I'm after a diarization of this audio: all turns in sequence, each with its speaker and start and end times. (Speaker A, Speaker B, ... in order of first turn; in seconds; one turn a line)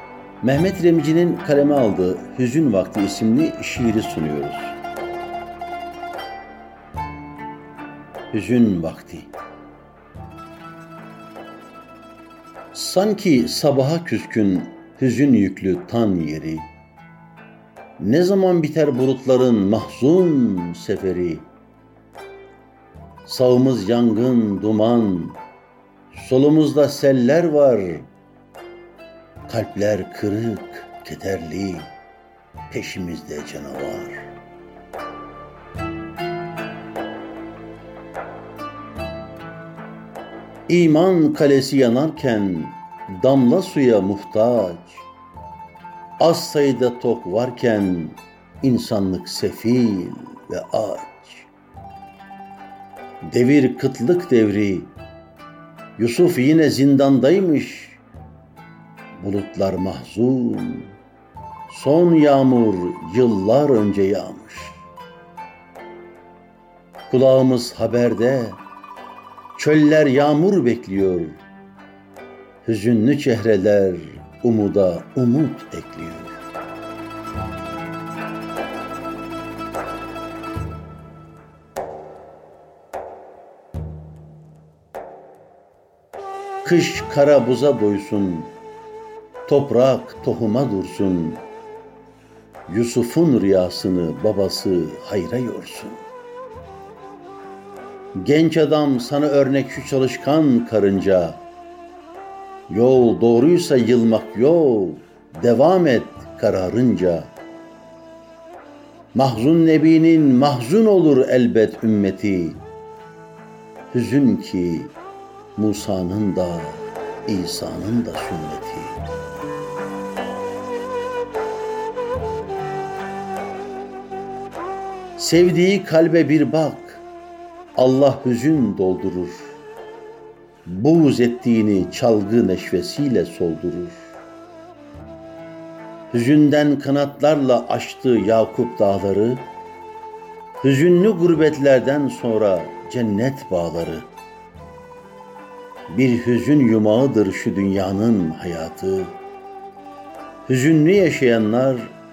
Speaker A: 0.4-4.8
Speaker A: 8.3-9.3
Speaker A: 12.7-16.7
Speaker A: 18.0-21.5
Speaker A: 23.2-25.4
Speaker A: 26.1-28.1
Speaker A: 29.5-31.9
Speaker A: 32.7-34.3
Speaker A: 40.7-45.1
Speaker A: 46.2-51.5
Speaker A: 53.2-54.9
Speaker A: 56.0-58.0
Speaker A: 59.1-61.0
Speaker A: 61.7-64.8
Speaker A: 67.1-68.6
Speaker A: 69.5-71.4
Speaker A: 72.6-76.4
Speaker A: 86.6-88.6
Speaker A: 89.5-91.5
Speaker A: 92.7-96.0
Speaker A: 98.2-101.4
Speaker A: 102.7-107.3
Speaker A: 109.1-112.6
Speaker A: 113.9-115.0
Speaker A: 115.6-119.0
Speaker A: 125.2-127.0
Speaker A: 127.8-129.6
Speaker A: 130.7-134.2
Speaker A: 136.1-139.5
Speaker A: 140.6-144.1
Speaker A: 145.9-149.2
Speaker A: 150.5-152.0